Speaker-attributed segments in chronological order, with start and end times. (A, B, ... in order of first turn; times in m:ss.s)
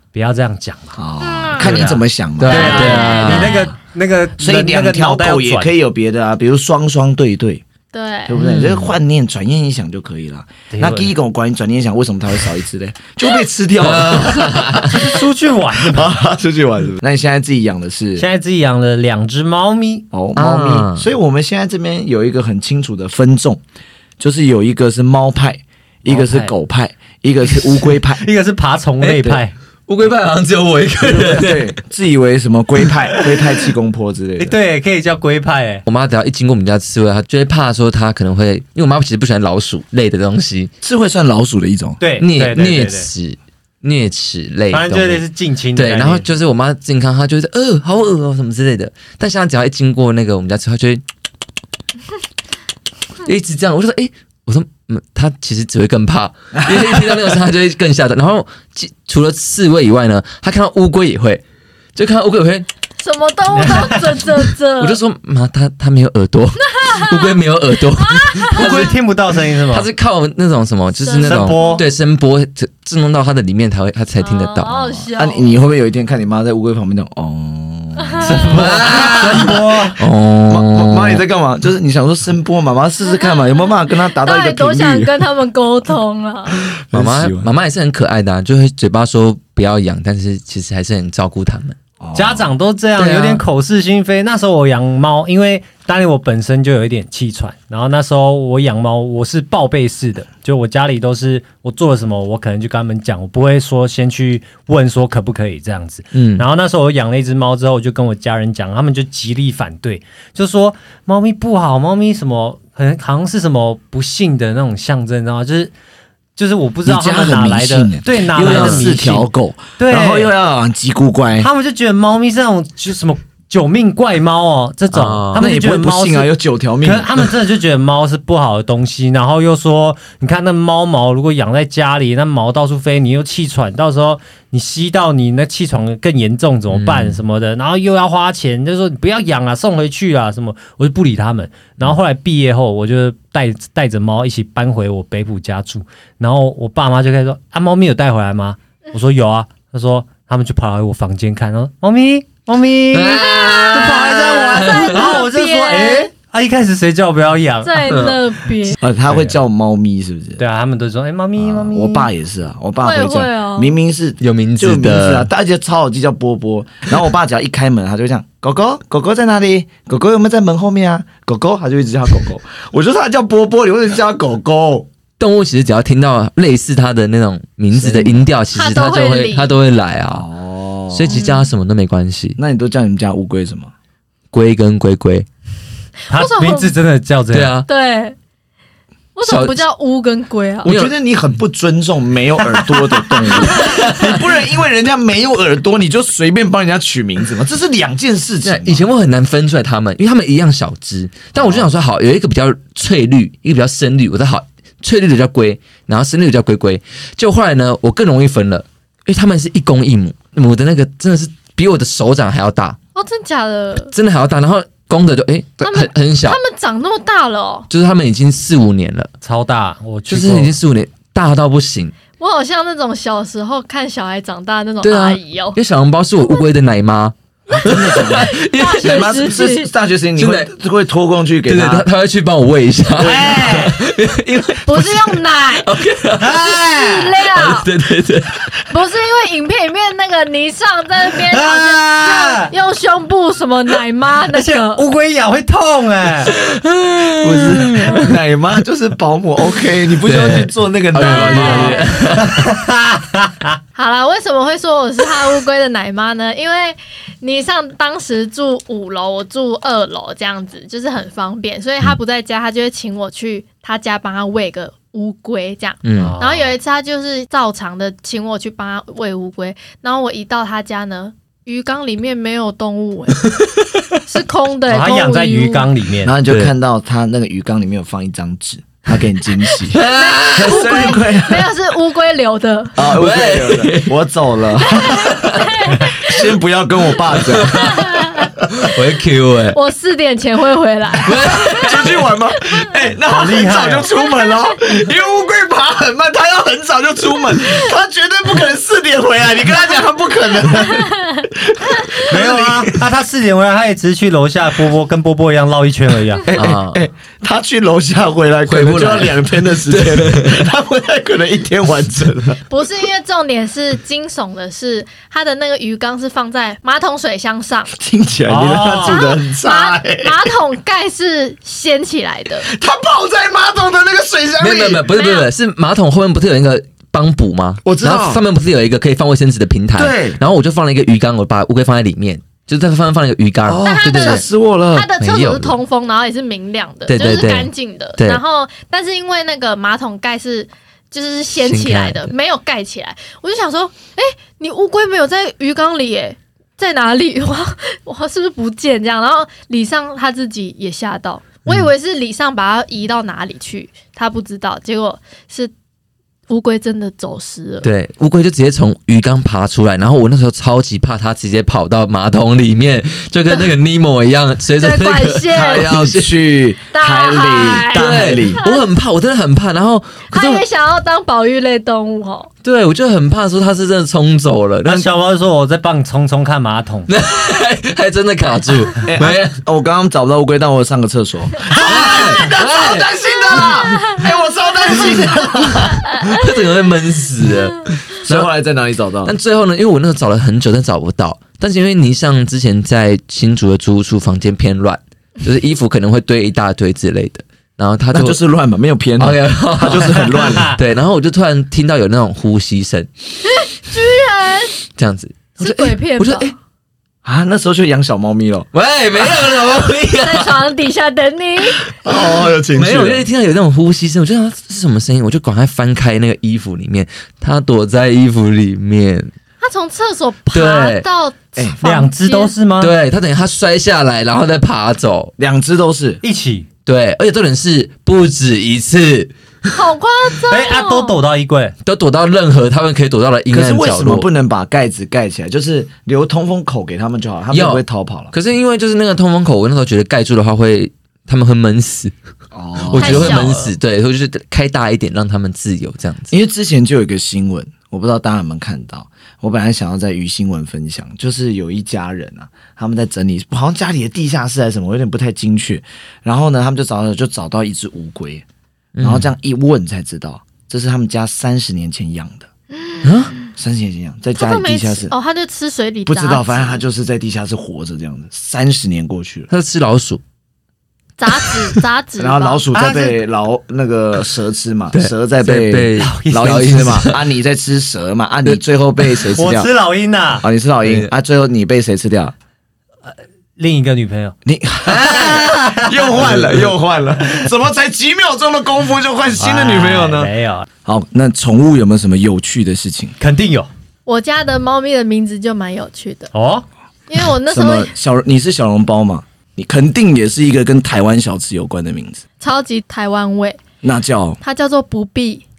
0:00.1-0:01.0 A
0:01.0-0:03.6 B
0:01.2-0:01.6 C
0:01.6-0:05.7 A
0:02.4-0:03.7 D
0:02.5-0:03.6 C
0:04.4-0:07.6 B
0:07.9-0:08.4 C
0:08.3-0:15.1 B
0:08.4-0:09.0 D
0:10.7-0:11.1 A
0:13.8-0:15.0 D
0:14.8-0:16.2 A
0:15.8-0:18.3 B
0:18.2-0:20.0 A
0:20.1-0:23.6 B
0:20.4-0:21.1 D
0:24.2-0:28.2 B
0:26.1-0:26.5 A
0:27.7-0:29.5 A
0:29.0-0:31.7 D
0:31.0-0:34.6 B
0:34.4-0:35.8 A
0:35.9-0:40.7 D
0:40.8-0:42.0 B
0:42.0-0:43.1 A
0:42.2-0:45.2 D
0:44.7-0:46.2 A
0:45.8-0:51.0 D
0:53.2-1:01.4 D
0:56.6-0:57.2 B
1:02.0-1:02.7 D
1:03.0-1:05.0 C
1:03.5-1:04.1 A
1:04.8-1:09.0 D
1:06.8-1:07.4 C
1:08.0-1:08.9 C
1:08.5-1:09.9 A
1:09.7-1:15.1 D
1:11.0-1:11.8 C
1:11.2-1:11.8 A
1:14.2-1:15.5 C
1:15.1-1:19.6 B
1:18.0-1:18.5 C
1:18.2-1:20.0 A
1:18.3-1:21.2 D
1:20.5-1:25.1 B
1:23.1-1:23.6 C
1:24.2-1:26.7 C
1:26.6-1:27.5 B
1:26.9-1:31.8 D
1:32.0-1:32.5 B
1:32.1-1:55.7 A
1:33.0-1:33.4 D
1:46.1-1:46.4 D
1:56.4-2:00.3 A
1:56.8-2:01.5 B
1:58.4-1:59.2 D
2:01.4-2:06.3 A
2:04.9-2:05.5 D
2:05.4-2:07.3 B
2:06.8-2:37.9 A
2:16.7-2:17.2 D
2:32.9-2:35.2 D
2:33.1-2:36.1 C
2:37.6-2:38.8 C
2:37.8-2:38.3 D
2:38.8-2:40.4 B
2:40.4-2:42.1 A
2:41.4-2:54.9 B
2:42.8-2:43.8 C
2:44.2-2:45.3 D
2:55.2-3:00.3 D
2:57.7-2:58.3 B
2:58.5-2:59.5 C
3:00.1-3:01.2 B
3:00.9-3:02.4 D
3:01.1-3:01.5 C
3:02.4-3:03.7 B
3:04.3-3:05.3 D
3:06.1-3:06.7 C
3:06.1-3:07.5 A
3:07.3-3:07.7 D
3:07.7-3:08.2 C
3:09.2-3:10.7 C
3:09.2-3:09.6 D
3:10.6-3:18.8 B
3:10.6-3:10.9 D
3:13.4-3:13.9 C
3:13.4-3:14.2 D
3:18.4-3:32.8 D
3:21.4-3:21.7 B
3:33.0-3:33.9 C
3:33.9-3:36.4 D
3:35.6-3:37.7 C
3:37.7-3:39.1 D
3:39.2-3:40.5 A
3:40.1-3:41.9 D
3:42.2-3:45.6 C
3:44.8-3:49.3 D
3:47.5-3:49.7 C
3:47.6-3:51.9 B
3:50.2-3:50.5 D
3:51.5-3:56.6 D
3:53.0-3:53.8 A
3:54.6-3:55.7 C
3:56.2-3:57.1 A
3:56.6-3:57.7 C
3:57.2-3:58.5 D
3:58.6-4:04.8 C
4:01.3-4:02.5 A
4:04.3-4:06.3 A
4:06.3-4:08.1 D
4:07.2-4:11.9 B
4:10.0-4:12.4 D
4:11.0-4:12.1 C
4:12.2-4:13.5 A
4:13.8-4:33.4 C
4:25.8-4:26.2 D
4:26.0-4:26.5 A
4:34.1-4:35.7 C
4:34.7-4:36.2 A
4:36.0-4:41.5 B
4:39.7-4:41.0 D
4:39.8-4:42.8 C
4:42.8-4:45.1 B
4:42.9-4:43.9 D
4:44.7-4:46.2 C
4:44.9-4:45.5 D
4:45.8-4:48.0 B
4:47.2-4:49.6 D
4:47.5-4:48.3 C
4:49.5-4:51.8 C
4:51.0-4:52.1 D
4:51.6-5:02.8 B
4:53.1-4:53.9 A
5:02.0-5:06.2 A
5:06.2-5:12.4 B
5:06.3-5:06.8 D
5:08.5-5:10.5 D
5:12.5-5:17.7 C
5:17.7-5:20.3 B
5:18.3-5:19.0 A
5:18.8-5:22.5 C
5:22.4-5:24.9 B
5:24.4-5:34.2 D
5:24.9-5:25.3 C
5:27.6-5:28.2 B
5:29.8-5:30.2 B
5:33.4-5:34.9 B
5:33.6-5:55.5 C
5:35.0-5:35.6 D
5:36.9-5:38.2 D
5:41.4-5:42.1 D
5:51.5-5:51.7 D
5:56.3-5:57.7 C
5:57.6-6:06.2 D
6:04.6-6:05.7 C
6:05.3-6:08.4 B
6:06.7-6:08.6 C
6:07.3-6:10.4 D
6:10.1-6:12.3 C
6:12.4-6:14.9 D
6:14.6-6:16.9 A
6:16.9-6:19.4 D
6:18.8-6:25.9 B
6:21.5-6:22.9 D
6:26.0-6:28.3 D
6:28.0-6:29.1 B
6:29.0-6:38.2 D
6:37.9-6:40.6 B
6:39.0-6:42.9 D
6:43.2-6:44.6 C
6:44.8-6:46.3 D
6:45.4-6:46.3 C
6:47.0-6:48.5 B
6:48.5-6:50.4 D
6:50.0-6:51.7 C
6:51.7-6:53.1 B
6:52.6-6:59.1 D
6:59.4-7:02.3 C
7:00.3-7:00.8 D
7:01.6-7:02.7 A
7:02.6-7:05.1 D
7:05.2-7:06.0 B
7:06.0-7:06.5 A
7:06.7-7:09.1 D
7:09.5-7:11.0 C
7:10.3-7:11.6 A
7:11.6-7:14.1 D
7:13.3-7:18.1 B
7:17.3-7:21.9 D
7:22.3-7:23.3 B
7:22.6-7:26.1 D
7:22.8-7:23.5 C
7:26.1-7:38.2 B
7:38.8-7:39.1 D
7:38.8-7:42.3 B
7:42.6-7:43.3 C
7:42.8-7:43.1 D
7:43.4-7:44.9 B
7:44.2-7:46.6 C
7:45.9-7:49.3 B
7:49.3-7:50.0 D
7:51.0-7:52.4 C
7:52.0-7:59.5 B
7:52.5-7:53.0 A
7:54.7-7:57.0 D
7:55.8-7:56.9 A
7:59.2-8:00.3 A
8:00.2-8:02.1 B
8:02.9-8:04.2 A
8:04.2-8:10.1 B
8:04.7-8:05.8 A
8:04.9-8:05.2 D
8:06.0-8:06.3 D
8:09.2-8:10.5 A
8:10.6-8:13.0 B
8:13.0-8:13.5 A
8:13.9-8:16.1 C
8:16.1-8:16.5 A
8:16.9-8:17.7 C
8:17.3-8:22.0 B
8:22.2-8:23.4 C
8:23.6-8:24.2 B
8:24.2-8:25.2 C